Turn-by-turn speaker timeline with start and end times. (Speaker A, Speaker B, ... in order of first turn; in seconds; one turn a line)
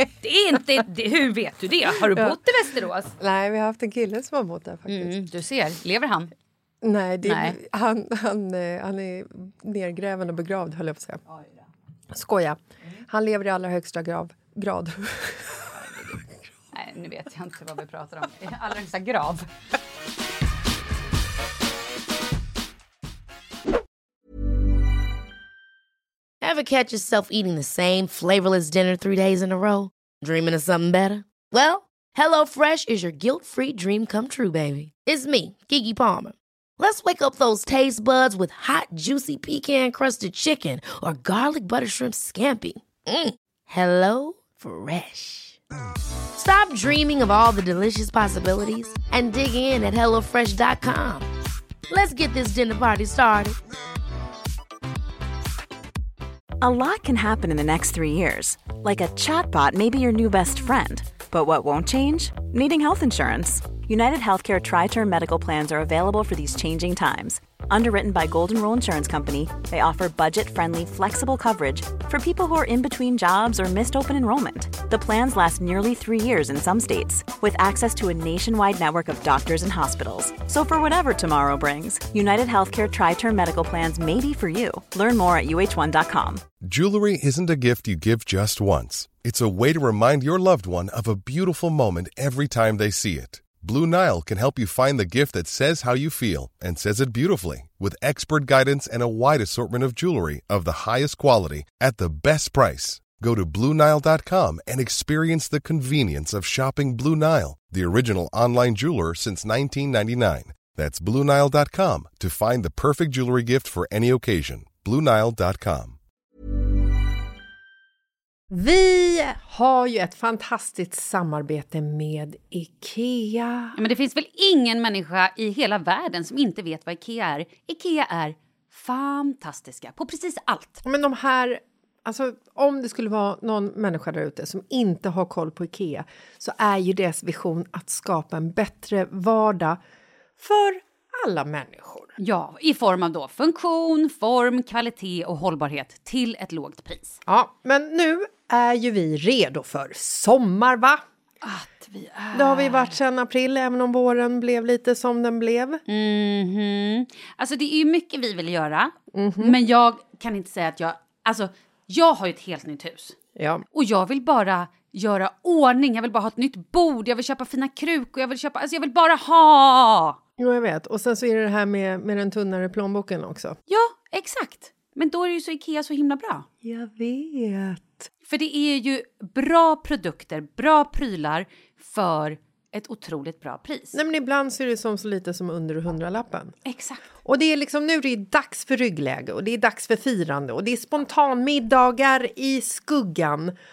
Speaker A: 0.2-3.1
Speaker B: 2.0-2.4
Speaker B: 3.2-5.2
Speaker A: 4.9-6.3
Speaker B: 6.8-11.2
Speaker A: 7.2-7.6
Speaker B: 12.1-15.6
Speaker A: 15.8-16.2
Speaker A: 16.7-19.5
Speaker C: 26.4-45.6
Speaker C: 46.4-51.3
Speaker C: 51.9-53.6
Speaker D: 56.6-86.4
Speaker E: 86.6-116.0
Speaker B: 118.5-123.8
Speaker A: 123.8-130.8
Speaker B: 130.8-139.8
Speaker B: 140.4-142.1
Speaker A: 142.2-147.2
Speaker B: 147.3-151.0
Speaker A: 151.4-153.0
Speaker B: 152.3-155.8
Speaker A: 155.9-163.2
Speaker B: 159.1-159.6
Speaker B: 163.4-163.6
Speaker A: 163.7-170.2
Speaker B: 170.4-173.6
Speaker A: 173.7-176.5
Speaker B: 176.6-178.1
Speaker A: 178.3-184.0
Speaker B: 183.9-186.6
Speaker A: 186.7-187.0
Speaker B: 187.2-193.5